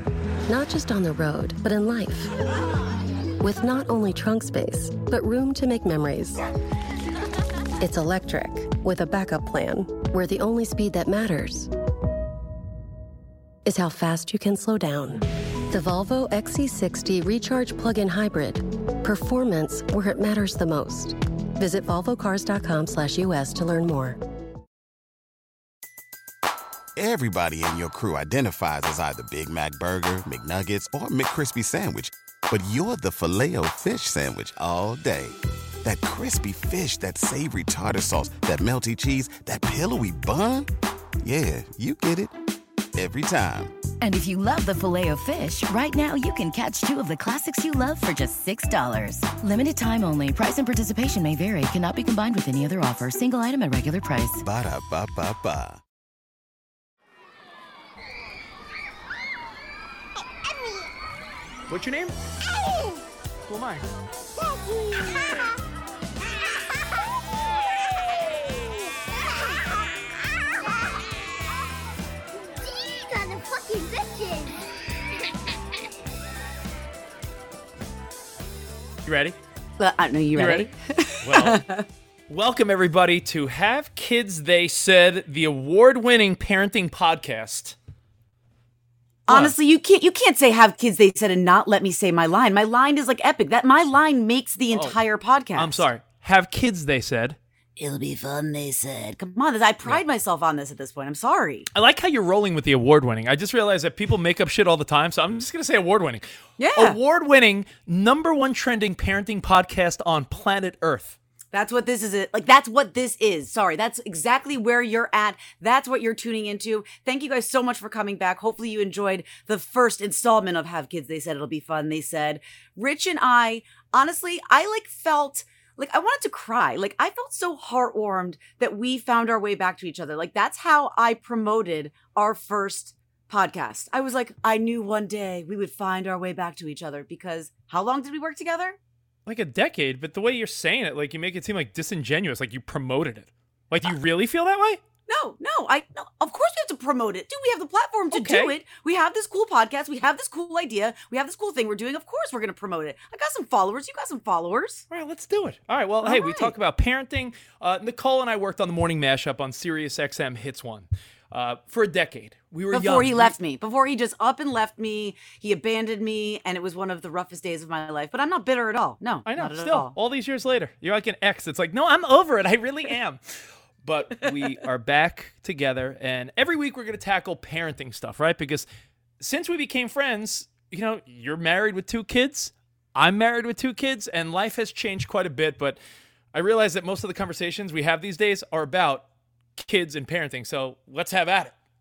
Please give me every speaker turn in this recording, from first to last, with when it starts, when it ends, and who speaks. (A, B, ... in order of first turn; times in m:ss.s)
0:00.5-0:02.3 A
0:03.4-0:06.4 A
0:07.8-0:11.7 A
0:13.6-0:24.2 A
0:27.0-0:40.7 B
0:41.2-0:42.3 B
0:42.9-0:43.7 B
0:44.0-0:54.4 C
0:54.4-0:55.8 B
1:01.7-1:02.2 D
1:02.5-1:03.0 E
1:03.5-1:03.9 D
1:04.4-1:05.5 E
1:06.6-1:06.9 E
1:08.0-1:11.0 E
1:12.5-1:14.7 E
1:19.0-1:19.4 D
1:19.8-1:21.8 F
1:20.3-1:20.7 D
1:21.2-1:21.6 D
1:22.3-1:27.8 D
1:29.3-1:35.8 F
1:29.3-1:29.6 D
1:34.7-1:35.0 D
1:35.5-1:37.4 D
1:37.8-1:41.7 F
1:41.7-1:51.2 D
1:46.6-1:47.0 F
1:51.5-2:18.8 F
2:19.2-2:24.8 D
2:25.1-2:34.8 F
2:28.1-2:28.5 D
2:34.9-2:43.3 D
2:36.0-2:36.5 F
2:42.7-2:49.9 F
2:49.3-2:58.6 D
2:59.2-3:05.8 D
3:06.3-3:09.0 D
3:09.6-3:11.5 D